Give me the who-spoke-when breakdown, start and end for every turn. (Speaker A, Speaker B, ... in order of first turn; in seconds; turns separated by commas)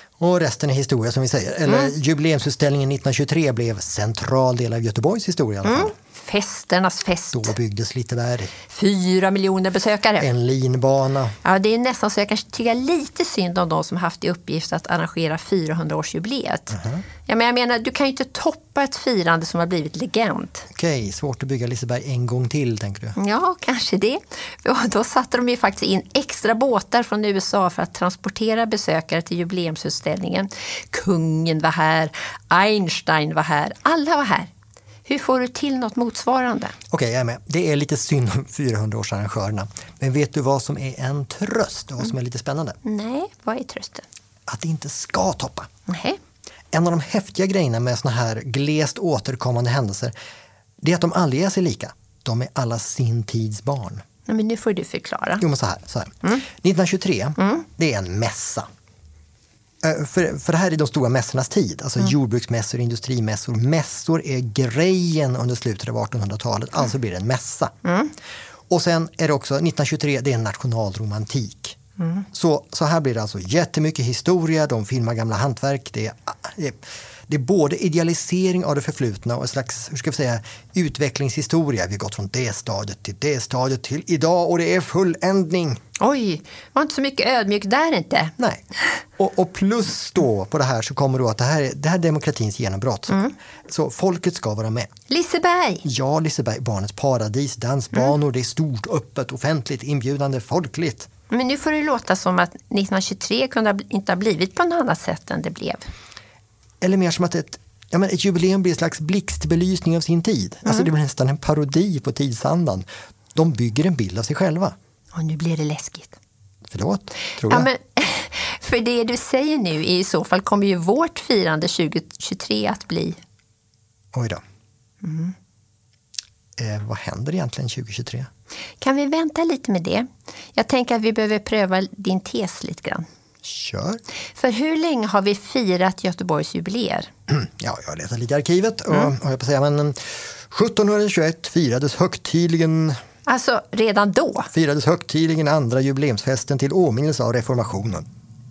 Speaker A: 0.2-5.9, Speaker B: 1.7-1.9, Speaker B: 5.7-7.5, Speaker A: 7.3-8.5, Speaker B: 8.7-10.3, Speaker A: 10.2-11.3, Speaker B: 11.4-20.7, Speaker A: 16.7-17.1, Speaker A: 20.7-23.2, Speaker B: 23.2-34.5, Speaker B: 35.1-36.8, Speaker A: 36.9-42.8, Speaker B: 42.8-44.1, Speaker A: 44.5-45.7, Speaker B: 45.9-46.2, Speaker A: 46.7-50.1, Speaker A: 50.8-54.0, Speaker B: 54.3-55.4, Speaker A: 55.4-58.7, Speaker A: 59.8-67.7, Speaker B: 67.8-68.1, Speaker A: 68.7-71.8, Speaker B: 72.0-72.2, Speaker A: 72.3-85.8, Speaker B: 86.0-88.3, Speaker A: 89.2-94.9, Speaker B: 95.1-95.8, Speaker A: 95.8-101.1, Speaker B: 101.3-105.8, Speaker A: 106.8-114.8, Speaker B: 115.1-116.2, Speaker A: 116.7-117.7, Speaker B: 117.3-123.2, Speaker A: 124.1-124.4, Speaker B: 125.0-125.3, Speaker A: 126.6-128.3, Speaker B: 128.8-133.1, Speaker A: 133.4-134.0, Speaker B: 134.3-137.1, Speaker A: 137.3-143.0, Speaker B: 143.3-144.5, Speaker A: 144.5-148.1